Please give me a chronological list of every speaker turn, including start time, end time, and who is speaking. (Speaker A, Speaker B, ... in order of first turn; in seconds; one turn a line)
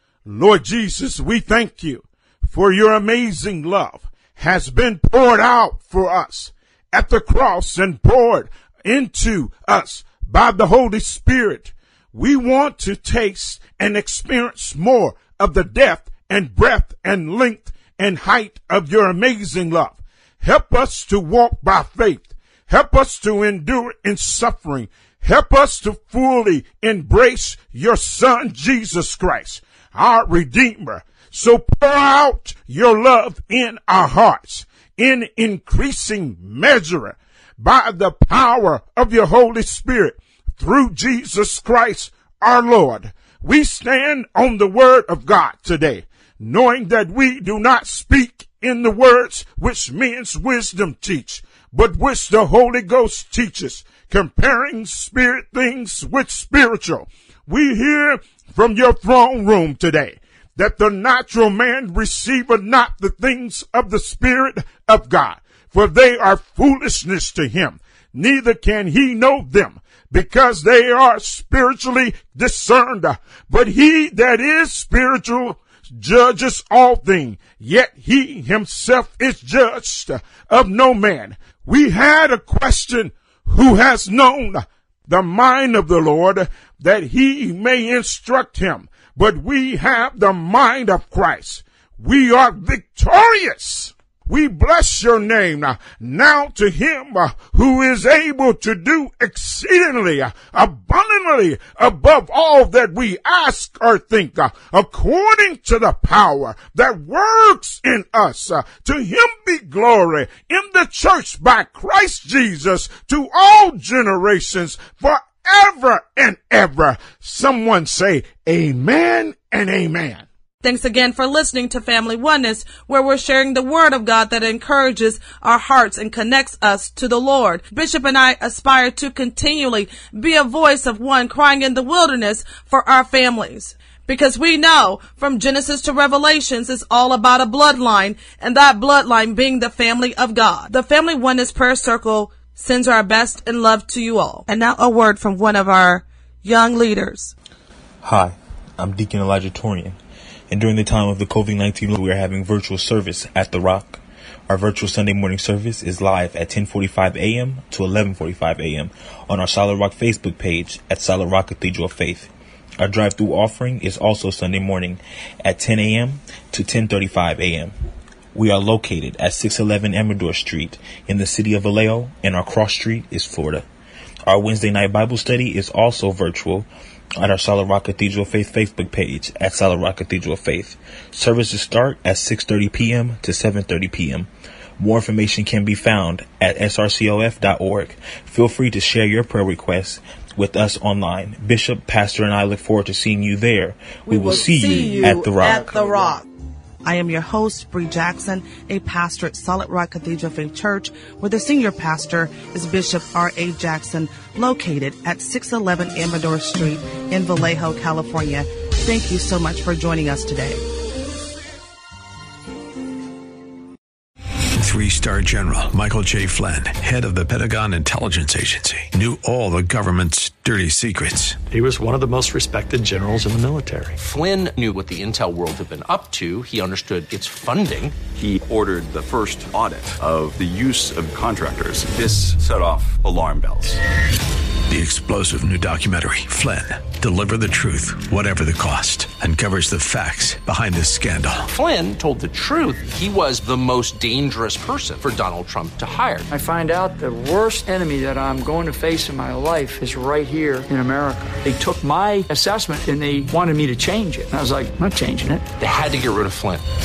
Speaker A: 0.3-120.2
Speaker B: 120.6-147.3
Speaker C: 148.0-150.0
Speaker C: 150.5-167.7
Speaker C: 168.3-173.7
Speaker C: 174.3-176.7
Speaker C: 177.2-184.3
Speaker C: 184.8-195.7
Speaker B: 194.1-196.2
Speaker B: 196.8-210.6
Speaker D: 214.6-221.4
Speaker E: 221.5-224.0
Speaker F: 224.0-228.0
Speaker G: 228.2-233.8
Speaker D: 234.7-241.5
Speaker F: 241.5-246.3
Speaker H: 246.3-255.5
Speaker F: 255.6-256.6